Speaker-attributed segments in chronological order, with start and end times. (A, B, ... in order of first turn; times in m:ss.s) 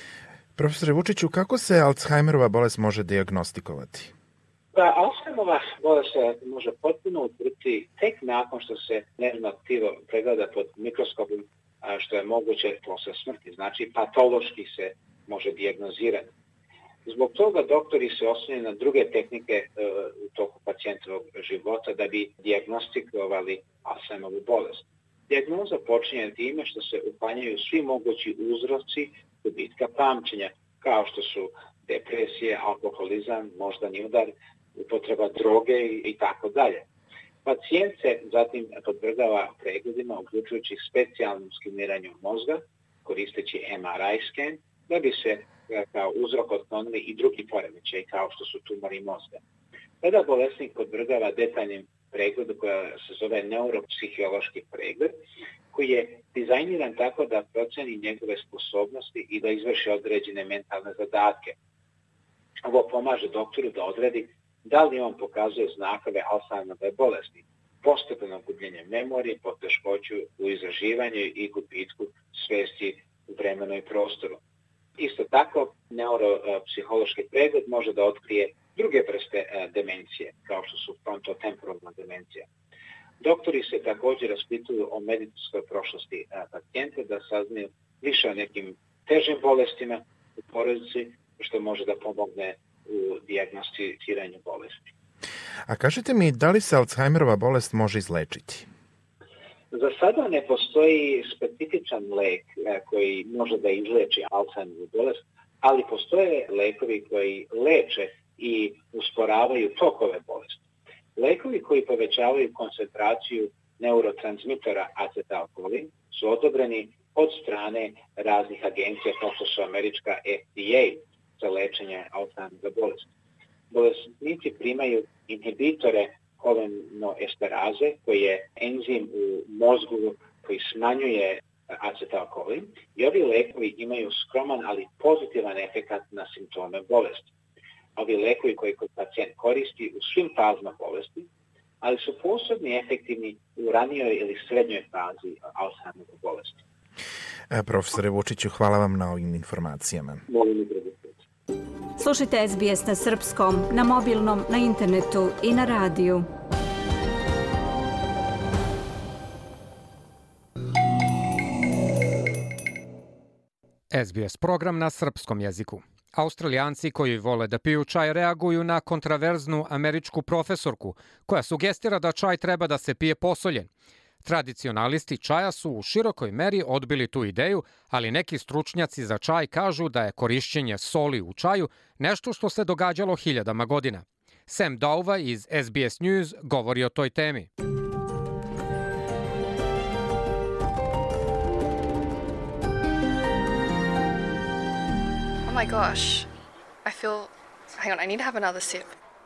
0:00.6-0:04.1 A
0:04.7-0:16.3 B
0:17.1-0:36.8 B
0:37.4-0:49.4 B
0:50.0-0:55.1 B
0:55.7-1:01.6 B
1:02.6-1:14.4 B
1:15.0-1:22.5 B
1:23.2-1:34.9 B
1:35.7-1:38.7 A
1:39.7-1:50.6 B
1:51.2-2:03.1 B
2:03.7-2:17.3 B
2:18.0-2:21.3 B
2:21.8-2:26.6 B
2:27.5-2:30.2 A
2:30.3-2:31.2 B
2:32.0-2:36.3 C
2:43.9-2:53.7 D
2:54.2-3:07.5 D
3:15.5-3:16.3 E
3:16.8-3:18.9 E